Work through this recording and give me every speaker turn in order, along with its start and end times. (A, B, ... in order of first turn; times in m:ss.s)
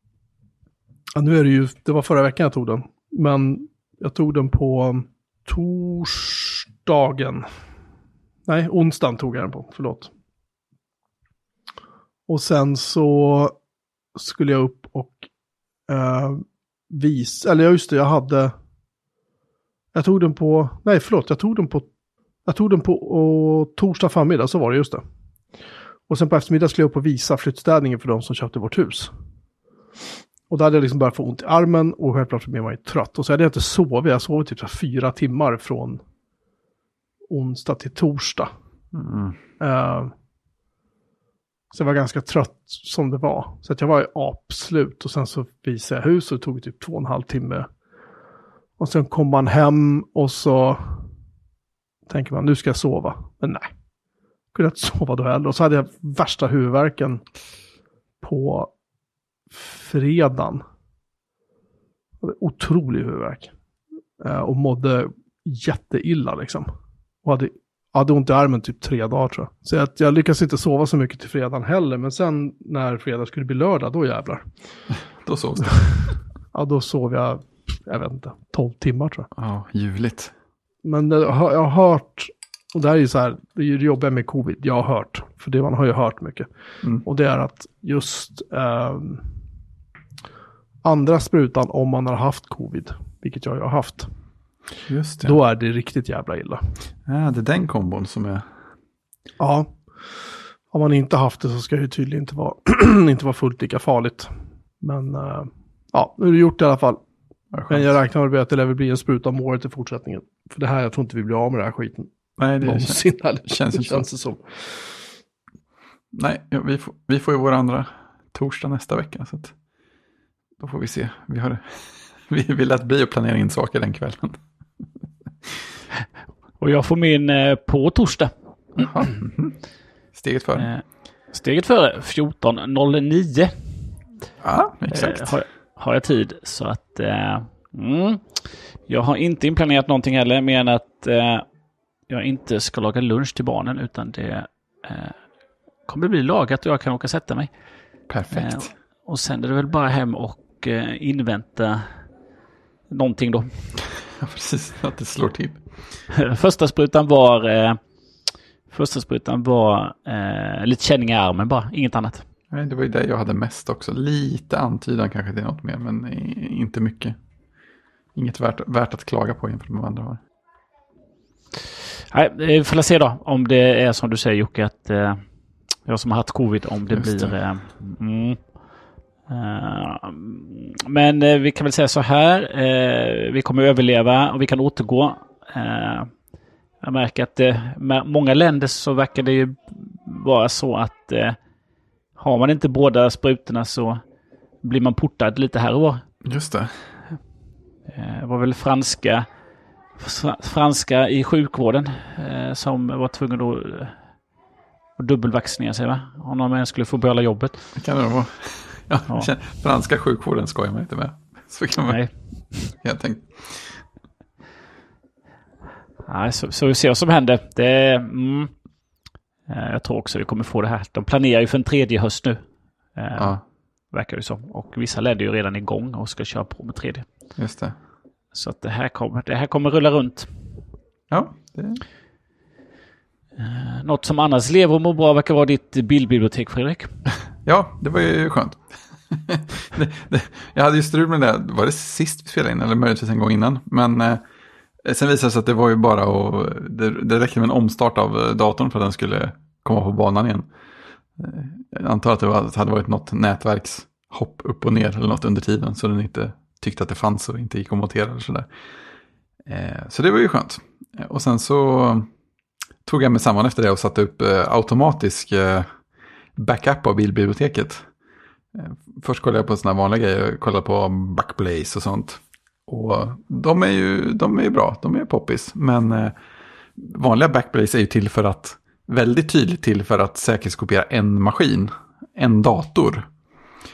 0:01.2-0:07.4 A
0:08.4-0:10.1 A
0:12.3-0:13.6 A
0:14.1-0:15.3 A
0:15.9-0:18.5 A
0:19.9-0:21.9 A
0:22.4-0:25.0 A
0:26.1-0:29.1 A
0:30.5-0:36.0 A
0:37.3-0:38.5 A
0:38.9-0:39.4 B
0:39.6-0:40.1 A
0:41.7-0:47.6 A
0:48.8-0:51.1 A
0:52.1-0:53.7 A
0:54.5-0:57.2 A
0:58.2-0:58.7 A
0:59.5-1:00.6 A
1:02.2-1:03.5 A
1:04.2-1:06.7 A
1:07.2-1:14.4 A
1:15.2-1:16.0 B
1:16.5-1:19.3 A
1:19.4-1:20.3 B
1:20.8-1:26.5 A
1:27.0-1:29.3 A
1:30.8-1:34.1 A
1:34.9-1:35.4 B
1:35.2-1:36.6 A
1:37.0-1:38.4 B
1:39.4-1:40.2 A
1:40.7-1:47.0 A
1:47.5-1:47.9 B
1:47.7-1:55.0 A
1:52.4-1:54.1 B
1:56.1-1:59.5 B
2:00.6-2:04.4 B
2:06.6-2:09.1 C
2:08.8-2:09.6 B
2:10.1-2:10.7 B
2:10.6-2:13.5 C
2:14.4-2:15.3 B
2:14.9-2:21.4 C
2:22.1-2:25.2 C
2:25.8-2:27.5 C
2:28.1-2:28.7 B
2:28.3-2:31.9 C
2:32.9-2:33.7 C
2:34.2-2:35.6 B
2:36.1-2:37.8 C
2:38.7-2:42.2 C
2:42.5-2:47.2 B
2:48.1-2:50.2 B
2:52.1-2:55.2 C
2:55.8-2:58.6 C
2:56.9-2:57.3 B
2:59.3-3:06.1 C
3:06.8-3:11.4 C
3:12.2-3:14.0 C
3:14.6-3:16.0 C
3:16.2-3:16.7 B
3:17.9-3:19.2 C
3:20.0-3:24.0 C
3:25.0-3:27.7 C
3:27.8-3:32.0 B
3:31.8-3:32.7 C
3:32.6-3:33.8 B
3:36.0-3:38.5 C
3:39.5-3:42.4 C
3:42.9-3:43.4 C
3:43.1-3:43.4 B
3:43.9-3:47.0 C
3:47.4-3:47.7 B
3:48.3-3:50.3 C
3:51.1-3:51.8 B
3:53.4-3:57.0 C
3:57.4-4:04.2 B
4:04.8-4:10.5 B
4:11.2-4:18.5 B
4:19.4-4:22.1 B
4:22.8-4:25.7 B
4:26.4-4:27.9 B
4:28.5-4:36.1 B
4:36.8-4:43.1 B